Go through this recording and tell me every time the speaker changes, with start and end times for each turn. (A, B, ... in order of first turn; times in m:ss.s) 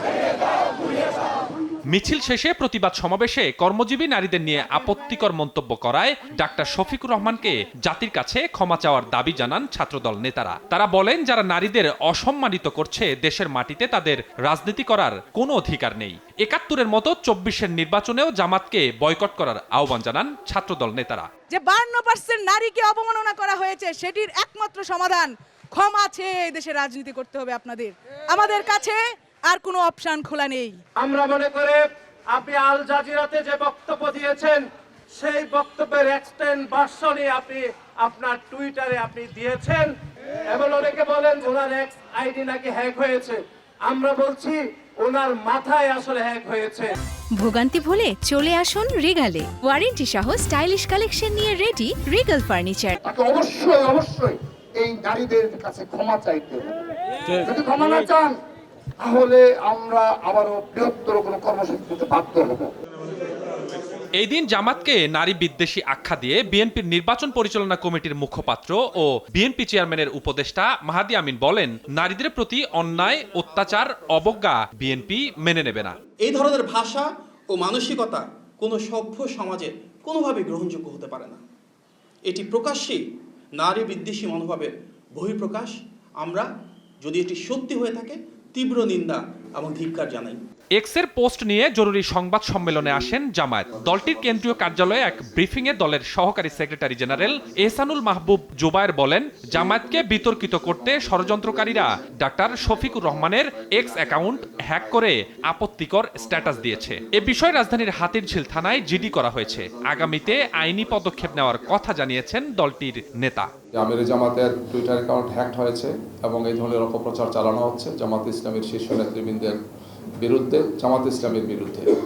0:01.9-0:21.3 A
0:21.5-0:30.8 B
0:31.0-0:34.6 C
0:35.2-0:39.9 C
0:40.5-0:46.9 C
0:47.4-0:52.9 D
0:53.0-0:56.7 E
0:57.4-0:58.4 E
0:59.0-1:02.7 E
1:04.2-1:16.0 A
1:16.2-1:21.4 F
1:22.3-1:23.0 F
1:23.6-1:26.5 F
1:27.0-1:30.4 F
1:30.8-1:53.5 A
1:53.7-1:59.6 G
2:00.2-2:01.9 G